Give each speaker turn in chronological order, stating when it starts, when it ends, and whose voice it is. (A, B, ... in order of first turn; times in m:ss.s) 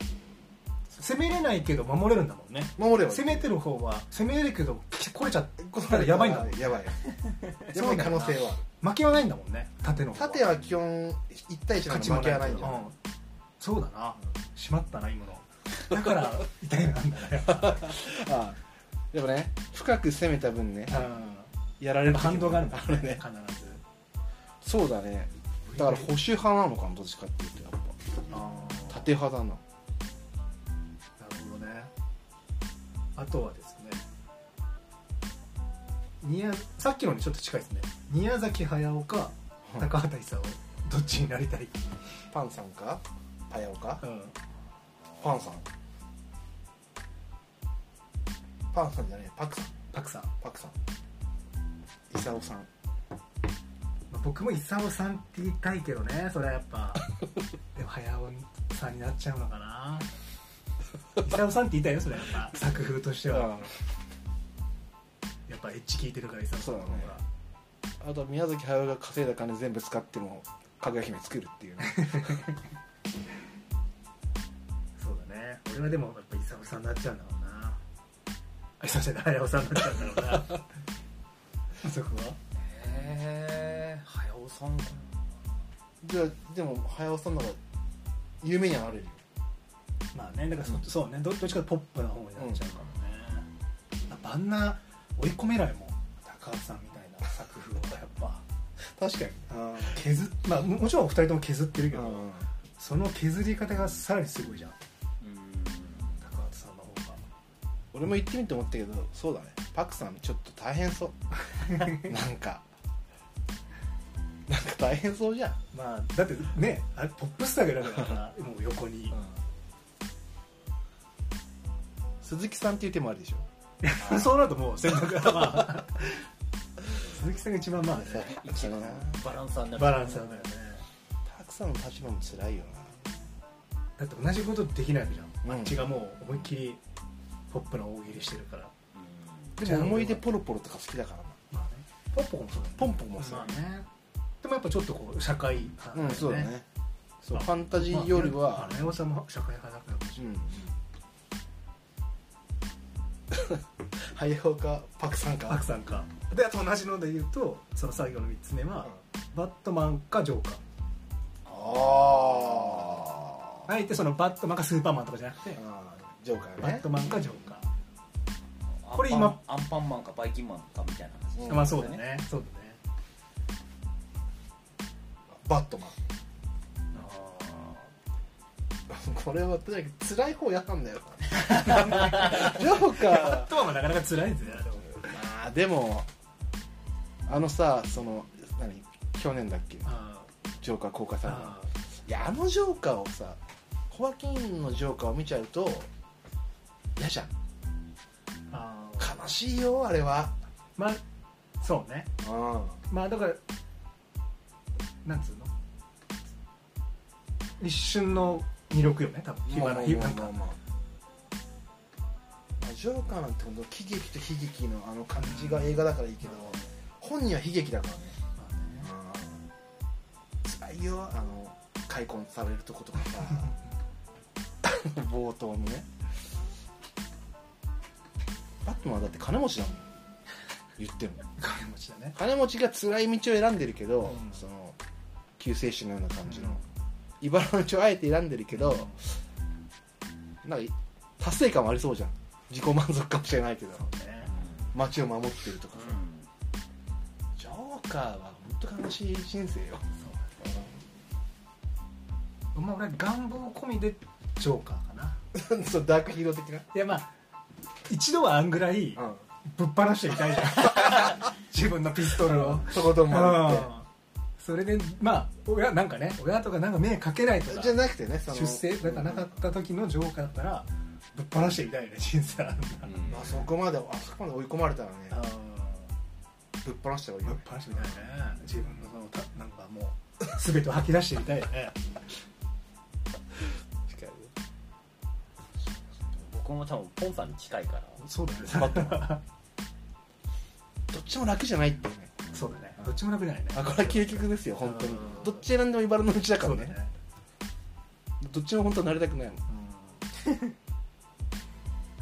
0:01.0-0:06.8 A
0:02.8-0:03.5 B
0:05.6-0:07.1 B
0:07.7-0:08.6 B
0:07.7-0:10.5 A
0:10.2-0:12.9 B
0:11.9-0:13.0 A
0:13.6-0:18.0 A
0:17.5-0:18.6 B
0:19.1-0:21.1 B
0:20.9-0:21.5 A
0:21.8-0:23.2 B
0:22.0-0:23.8 A
0:24.6-0:28.1 B
0:25.6-0:26.1 A
0:28.3-0:29.1 A
0:28.9-0:29.6 B
0:31.2-0:31.9 A
0:33.2-0:34.1 A
0:36.2-0:41.8 A
0:42.3-0:44.0 B
0:44.0-0:44.4 A
0:45.2-0:45.7 B
0:48.7-0:49.8 B
0:49.9-0:50.3 A
0:50.4-0:50.8 B
0:52.1-0:52.7 B
0:54.1-0:57.1 A
0:57.8-1:00.1 A
1:01.2-1:03.7 A
1:03.3-1:03.7 B
1:05.5-1:07.2 A
1:06.6-1:07.1 B
1:08.0-1:12.4 B
1:11.8-1:12.6 A
1:15.0-1:17.8 A
1:18.8-1:20.7 A
1:21.8-1:22.4 A
1:22.6-1:25.2 C
1:26.0-1:27.6 B
1:28.4-1:29.2 B
1:30.1-1:33.5 A
1:34.1-1:38.4 A
1:39.0-1:44.8 A
1:39.4-1:40.0 B
1:41.9-1:42.5 B
1:45.2-1:46.2 C
1:46.2-1:47.2 A
1:47.9-1:51.2 B
1:51.5-1:52.1 A
1:51.8-1:52.6 B
1:54.5-1:55.6 B
1:55.7-1:59.2 A
2:02.2-2:03.5 B
2:03.8-2:06.3 A
2:07.0-2:08.4 A
2:08.1-2:10.5 C
2:08.1-2:09.2 B
2:09.8-2:10.8 A
2:11.3-2:12.9 B
2:14.0-2:16.8 A
2:15.4-2:15.9 B
2:17.5-2:18.7 A
2:18.9-2:19.6 C
2:19.6-2:21.4 B
2:19.6-2:20.2 A
2:21.5-2:23.9 A
2:22.8-2:23.6 B
2:24.4-2:26.5 A
2:25.9-2:26.6 B
2:27.2-2:29.0 B
2:27.3-2:30.4 A
2:30.2-2:30.7 B
2:33.3-2:35.6 B
2:35.5-2:40.6 A
2:41.5-2:43.6 B
2:41.5-2:43.0 C
2:43.7-2:45.6 A
2:45.6-2:46.9 B
2:46.6-2:47.7 A
2:48.8-2:52.0 C
2:48.9-2:49.4 A
2:51.4-2:51.9 B
2:51.5-2:52.8 A
2:55.3-2:56.0 B
2:56.9-2:57.9 A
2:58.9-3:03.6 B
3:01.5-3:05.1 A
3:04.6-3:06.1 B
3:07.3-3:09.9 B
3:09.8-3:10.3 A
3:10.6-3:13.4 B
3:11.2-3:11.7 A
3:13.9-3:15.9 B
3:17.0-3:17.3 B
3:18.5-3:19.2 A
3:19.0-3:20.4 B
3:21.6-3:22.1 A
3:22.2-3:22.8 B
3:22.9-3:23.4 A
3:25.0-3:25.5 A
3:27.6-3:30.4 A
3:29.5-3:30.6 B
3:32.6-3:38.2 B
3:35.2-3:36.7 A
3:38.4-3:38.9 A
3:38.8-3:39.5 B
3:40.4-3:43.6 B
3:44.6-3:45.9 B
3:48.6-3:49.8 B
3:50.8-3:51.2 B
3:51.4-3:52.2 A
3:52.2-3:54.8 B
3:54.0-3:54.4 A
3:55.4-3:56.6 B
3:56.3-3:56.6 A
3:57.2-3:59.0 B
3:58.6-3:59.0 A
4:00.4-4:03.8 B
4:03.7-4:04.3 A
4:04.3-4:04.7 C
4:04.7-4:06.0 B
4:05.7-4:06.3 C
4:07.4-4:09.8 B
4:10.0-4:10.3 A
4:12.6-4:15.2 A
4:15.3-4:16.7 B
4:16.7-4:17.1 A
4:17.9-4:23.9 A
4:19.0-4:19.2 B
4:22.2-4:23.7 B
4:24.4-4:33.1 A
4:27.5-4:29.4 B
4:32.8-4:33.4 C
4:33.1-4:35.2 B
4:35.1-4:35.9 A
4:36.6-4:38.0 B
4:37.2-4:41.9 A
4:43.9-4:44.3 B
4:46.2-4:48.0 C
4:48.0-4:49.2 A
4:48.4-4:49.2 B
4:50.9-4:53.0 B
4:52.3-4:54.0 A
4:53.5-4:56.8 B
4:54.6-4:55.4 A
4:56.4-4:56.9 A
4:58.2-4:59.4 B
4:59.5-5:00.1 A